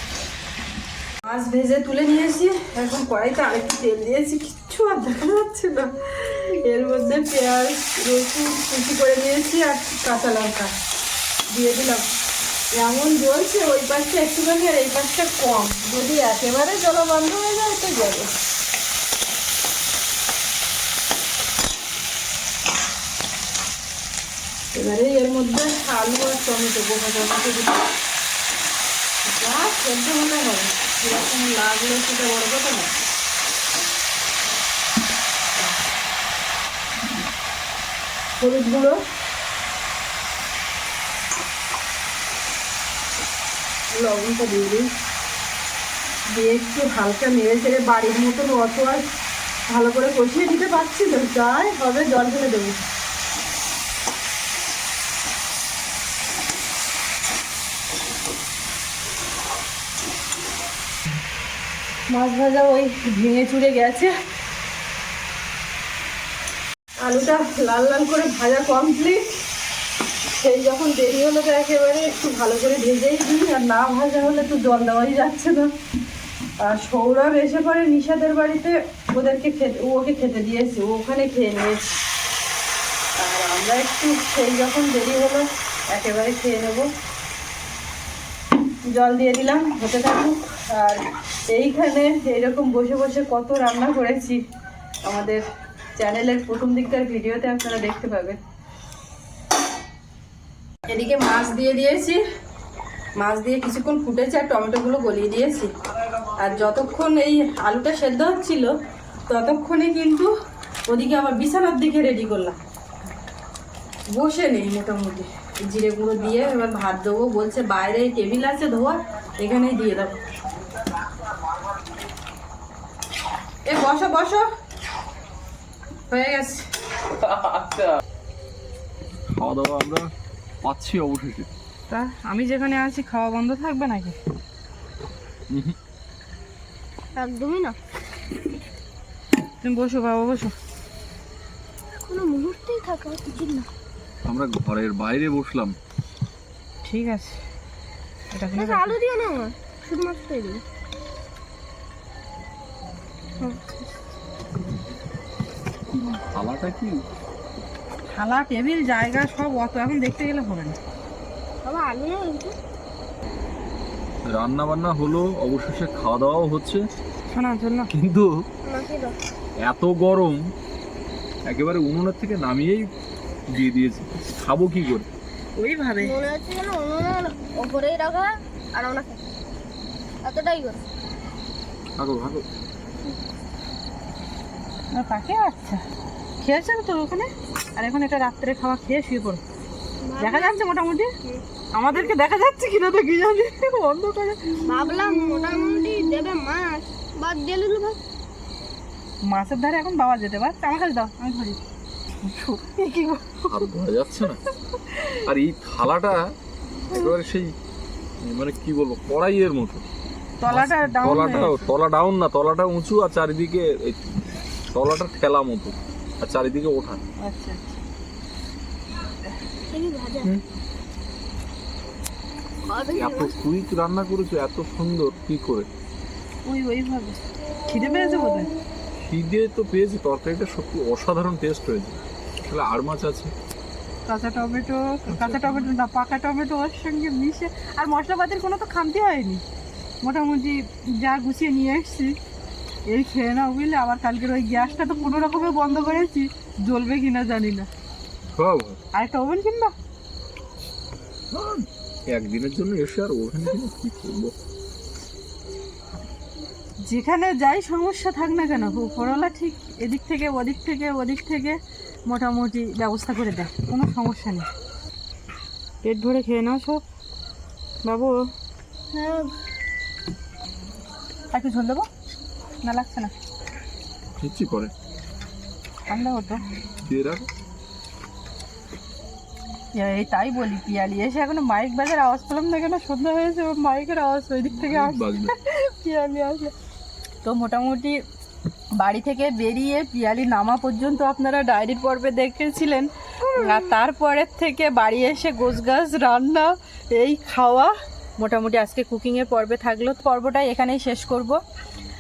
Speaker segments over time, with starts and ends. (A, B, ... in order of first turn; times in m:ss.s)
0:01.2-0:10.7 A
0:11.5-0:12.0 A
0:12.7-0:18.3 A
0:24.7-0:27.9 A
0:29.2-0:32.9 A
0:38.4-0:39.0 A
0:43.9-0:44.9 A
0:46.3-0:49.0 A
0:49.7-0:52.8 A
1:02.1-1:04.1 A
1:07.0-1:09.3 A
1:10.4-1:15.7 A
1:16.6-1:21.9 A
1:23.2-1:26.9 A
1:28.9-1:34.4 A
1:35.0-1:35.4 A
1:36.0-1:38.4 A
1:40.9-1:42.2 A
1:43.2-1:45.7 A
1:46.4-1:48.7 A
1:49.3-1:50.3 A
1:50.9-1:52.6 A
1:54.1-2:00.1 A
2:03.7-2:04.5 A
2:06.1-2:06.7 A
2:07.2-2:07.9 B
2:09.3-2:10.1 B
2:10.6-2:11.5 B
2:11.9-2:14.2 A
2:15.5-2:15.8 B
2:17.2-2:17.8 C
2:19.6-2:20.5 A
2:22.0-2:23.7 C
2:24.2-2:25.7 B
2:26.8-2:27.4 A
2:28.3-2:28.9 A
2:28.5-2:30.6 C
2:33.4-2:33.8 C
2:36.3-2:37.0 B
2:38.2-2:40.8 A
2:41.6-2:42.5 C
2:44.2-2:46.8 B
2:47.3-2:47.9 A
2:47.9-2:48.4 B
2:48.6-2:49.2 C
2:49.6-2:50.5 B
2:51.5-2:52.9 B
2:53.5-2:55.1 B
2:55.6-2:56.1 A
2:56.0-2:59.2 C
3:00.2-3:00.8 C
3:02.0-3:02.4 B
3:04.9-3:05.8 A
3:06.4-3:09.4 A
3:10.0-3:10.6 C
3:10.2-3:11.1 A
3:11.7-3:14.5 A
3:14.6-3:18.0 C
3:19.2-3:21.6 A
3:22.2-3:23.7 A
3:23.4-3:24.4 B
3:24.8-3:25.2 A
3:25.2-3:26.4 B
3:26.9-3:27.5 B
3:28.2-3:29.8 B
3:30.4-3:31.7 A
3:30.5-3:34.0 B
3:34.7-3:37.0 B
3:37.2-3:37.8 A
3:39.7-3:40.3 C
3:42.7-3:43.3 C
3:42.9-3:45.7 B
3:46.5-3:48.5 A
3:49.0-3:53.3 B
3:54.1-3:59.4 A
3:55.2-3:55.6 B
4:00.0-4:02.2 A
4:02.9-4:07.7 A
4:08.3-4:08.8 B
4:08.9-4:09.7 A
4:11.3-4:14.3 B
4:16.8-4:24.5 A
4:25.8-4:26.8 A
4:27.8-4:28.2 A
4:28.9-4:29.3 C
4:31.3-4:31.9 A
4:32.6-4:33.1 A
4:34.2-4:34.7 B
4:35.9-4:36.4 A
4:36.8-4:37.3 B
4:39.7-4:46.5 A
4:44.5-4:45.3 B
4:47.2-4:48.0 A
4:48.8-5:01.4 A